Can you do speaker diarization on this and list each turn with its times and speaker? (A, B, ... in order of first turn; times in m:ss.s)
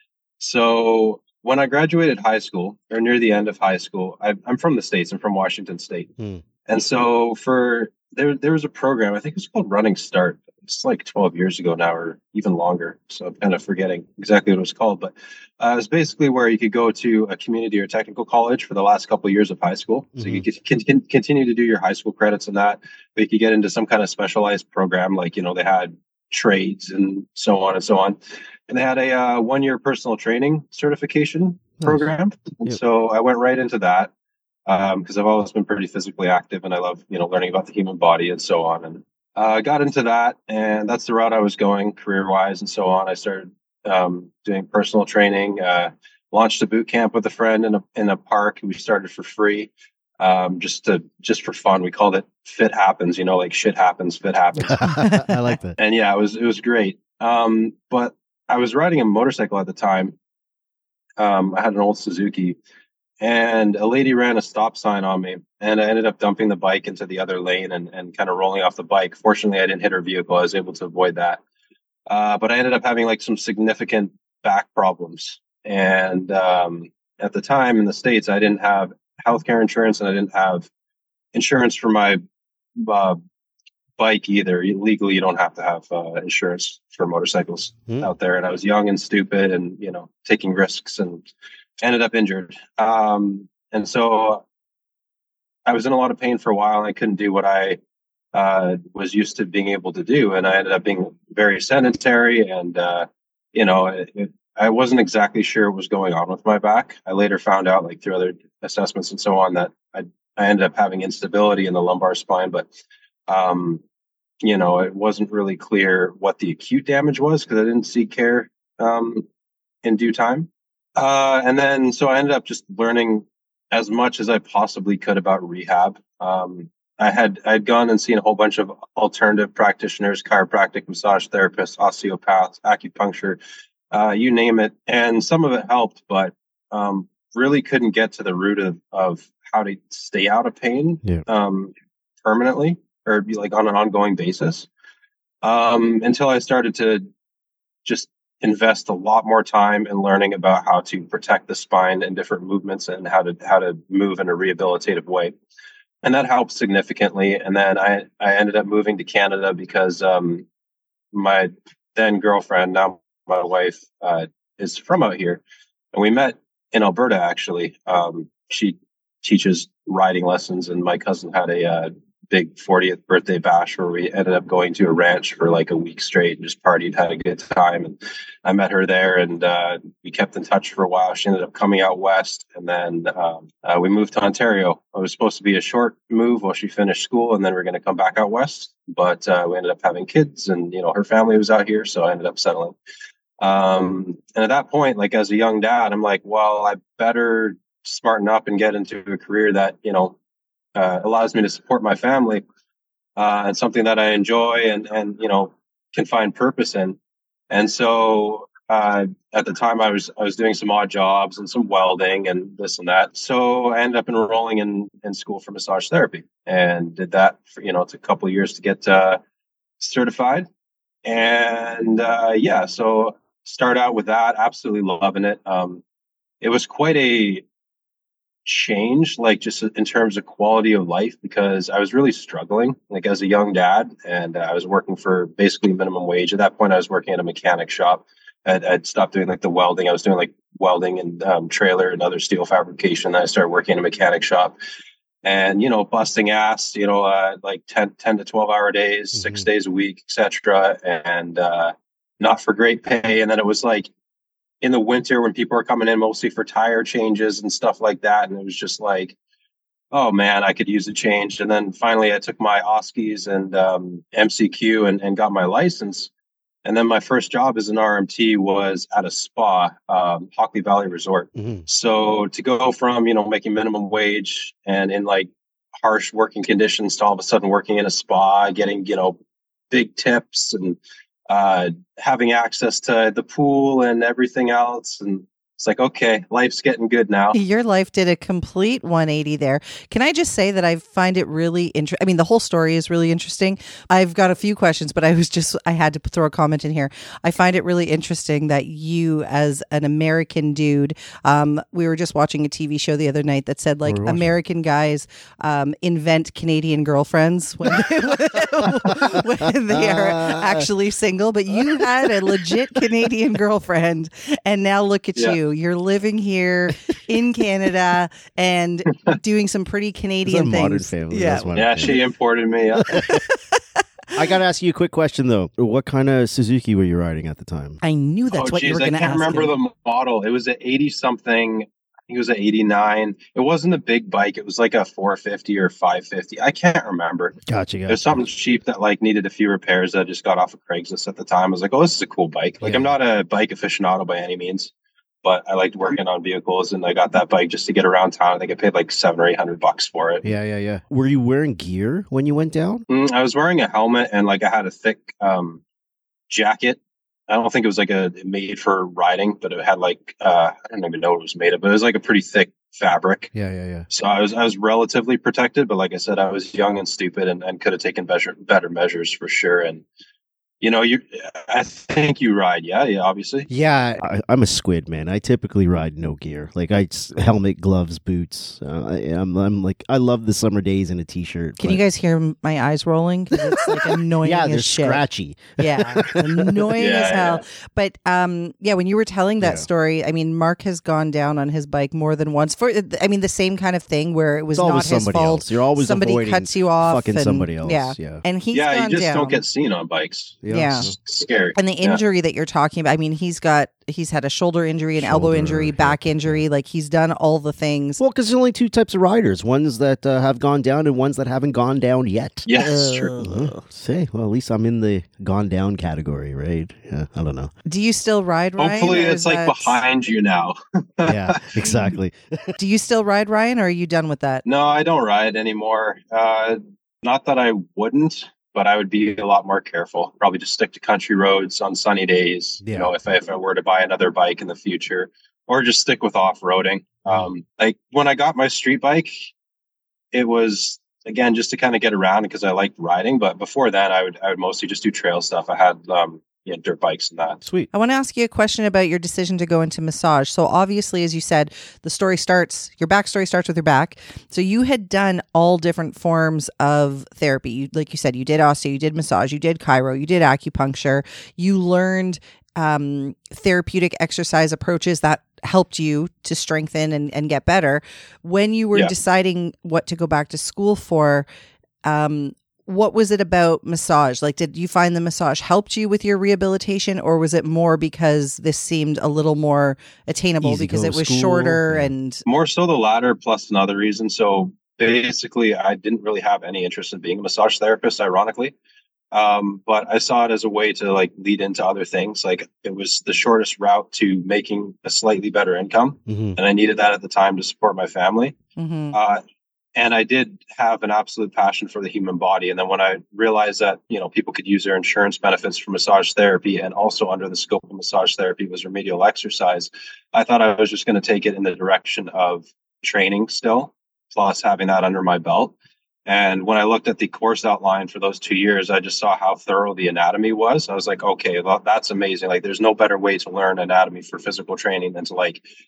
0:00.4-0:06.1 A
0:06.6-0:28.2 A
0:20.2-0:20.4 B
0:28.7-0:34.1 A
0:31.8-0:32.1 B
0:34.6-0:54.9 A
0:54.6-0:55.8 B
0:55.0-0:55.3 C
0:55.8-1:00.2 A
1:01.2-1:02.6 A
1:03.2-1:11.4 A
1:12.1-1:20.7 A
1:21.3-1:22.2 A
1:22.7-1:23.2 A
1:24.0-1:31.2 A
1:31.8-1:34.4 A
1:35.6-1:37.8 A
1:38.3-1:52.7 A
1:53.3-1:53.8 A
1:54.4-1:59.3 A
1:59.8-2:13.4 A
2:13.9-2:24.7 A
2:25.4-2:27.0 A
2:27.8-2:35.3 A
2:36.0-2:40.4 A
2:41.1-2:45.4 A
2:45.9-3:12.8 A
3:13.4-3:20.2 A
3:20.7-3:22.4 A
3:23.2-3:27.0 A
3:27.5-3:39.2 A
3:39.8-3:40.5 A
3:41.0-3:45.8 A
3:46.4-3:47.4 A
3:48.4-4:04.6 A
4:05.2-4:13.9 A
4:09.2-4:09.4 B
4:14.6-4:19.2 A
4:19.9-4:26.1 A
4:26.6-4:39.2 A
4:31.3-4:31.7 B
4:39.7-4:47.4 A
4:47.3-5:21.9 C
5:03.8-5:04.3 B
5:08.6-5:09.2 B
5:09.7-5:10.6 B
5:11.5-5:12.4 B
5:20.2-5:22.0 B
5:21.5-5:23.0 A
5:22.9-5:23.2 B
5:22.9-5:23.4 C
5:24.1-5:27.8 B
5:27.8-5:29.5 C
5:28.3-5:37.3 A
5:37.4-5:38.2 B
5:37.9-5:44.7 A
5:42.6-5:42.9 B
5:45.2-5:50.2 A
5:50.2-5:52.8 B
5:52.9-5:55.6 A
5:56.3-6:03.3 A
6:03.3-6:03.9 B
6:03.9-6:09.8 A
6:10.6-6:13.5 A
6:13.5-6:21.8 B
6:21.6-6:25.0 C
6:23.3-6:26.6 B
6:25.6-6:39.4 C
6:26.8-6:27.4 A
6:29.4-6:29.6 B
6:34.5-6:38.2 B
6:38.5-6:42.0 A
6:40.4-6:40.9 B
6:40.5-6:40.9 C
6:41.6-6:48.0 C
6:45.0-6:46.4 B
6:48.0-6:57.5 B
6:52.4-6:53.2 A
6:57.6-6:59.8 C
6:58.6-7:01.6 A
7:01.0-7:02.5 B
7:02.6-7:04.4 C
7:04.4-7:19.3 A
7:12.6-7:12.9 B
7:20.1-7:27.4 A
7:27.4-7:27.7 B
7:27.7-7:51.3 C
7:51.8-8:02.2 C
8:00.4-8:01.9 B
8:02.2-8:08.5 A
8:09.1-8:18.4 A
8:16.1-8:16.4 B
8:18.6-8:19.0 C
8:18.9-8:19.2 A
8:19.8-8:35.5 A
8:36.0-8:45.4 A